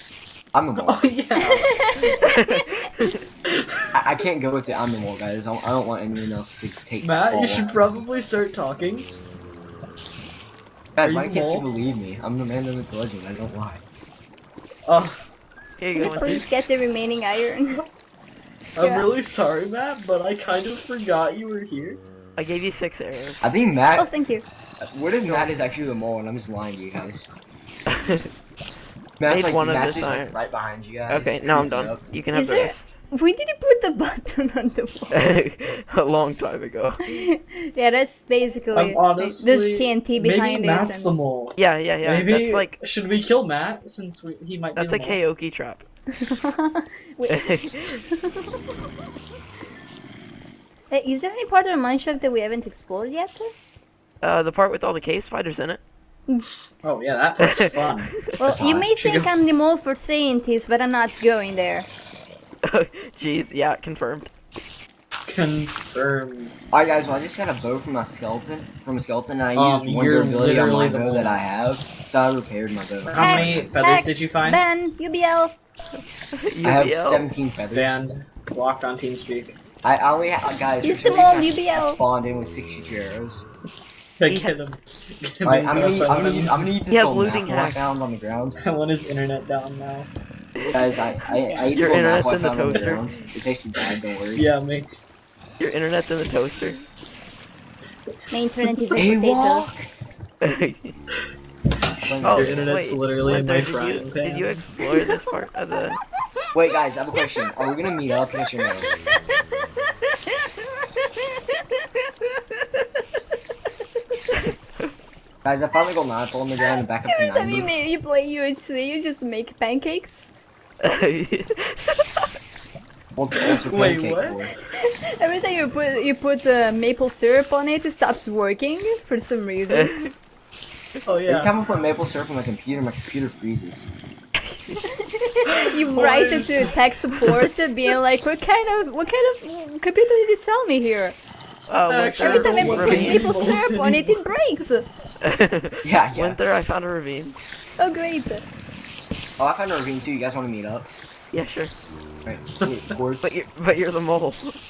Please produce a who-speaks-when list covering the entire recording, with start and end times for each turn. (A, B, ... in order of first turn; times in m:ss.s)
0:00.5-0:01.0 A
0:00.8-0:01.9 B
0:01.4-0:03.2 C
0:02.2-0:03.2 D
0:03.9-0:08.0 A
0:07.0-0:09.1 B
0:10.9-0:13.8 A
0:11.0-0:11.6 B
0:14.9-0:15.2 B
0:15.8-0:16.5 D
0:16.0-0:17.8 C
0:16.0-0:16.4 B
0:18.8-0:22.0 B
0:18.8-0:19.1 C
0:22.4-0:23.5 D
0:23.4-0:24.1 A
0:23.9-0:24.4 C
0:24.8-0:27.3 A
0:25.2-0:25.5 D
0:27.9-0:28.3 D
0:29.2-0:32.0 A
0:29.3-0:30.3 D
0:31.1-0:32.9 D
0:32.3-0:35.2 C
0:35.1-0:37.2 D
0:37.0-0:41.1 C
0:38.7-0:45.2 B
0:41.6-0:42.8 D
0:44.8-0:45.8 D
0:46.1-0:48.5 C
0:47.3-0:48.0 D
0:50.9-0:53.5 C
0:54.2-0:55.8 D
0:56.8-0:58.2 B
0:57.4-0:58.2 D
0:58.4-1:01.9 C
0:58.4-0:58.9 A
0:59.0-0:59.3 B
1:02.6-1:04.3 D
1:05.3-1:06.5 B
1:06.7-1:13.8 A
1:09.5-1:11.4 B
1:13.1-1:14.6 B
1:13.2-1:15.5 C
1:16.3-1:17.3 D
1:16.6-1:18.0 A
1:17.7-1:19.6 B
1:19.8-1:23.4 A
1:20.8-1:22.0 C
1:24.2-1:26.7 B
1:24.3-1:24.5 D
1:25.4-1:28.6 A
1:26.9-1:27.9 D
1:28.6-1:30.1 B
1:30.6-1:30.8 D
1:30.7-1:34.4 A
1:31.4-1:31.8 C
1:31.8-1:33.0 D
1:34.3-1:34.9 B
1:35.6-1:36.8 D
1:38.3-1:39.7 C
1:38.9-1:39.9 A
1:40.4-1:40.9 D
1:42.0-1:42.7 A
1:42.2-1:46.0 D
1:42.2-1:44.6 B
1:46.5-1:48.9 A
1:50.3-1:52.8 C
1:55.4-1:57.7 A
1:57.0-2:00.3 C
2:00.8-2:02.2 D
2:03.1-2:04.5 A
2:03.6-2:04.4 B
2:04.7-2:09.9 C
2:09.7-2:10.1 D
2:11.0-2:11.5 B
2:11.3-2:13.9 A
2:14.4-2:14.8 D
2:14.8-2:21.2 C
2:15.6-2:16.8 B
2:21.7-2:23.6 D
2:21.9-2:24.1 B
2:22.2-2:24.8 C
2:22.8-2:23.4 A
2:25.2-2:27.4 D
2:25.8-2:26.4 A
2:27.8-2:28.4 C
2:29.4-2:30.9 A
2:31.3-2:31.7 D
2:32.2-2:33.4 A
2:33.2-2:34.6 D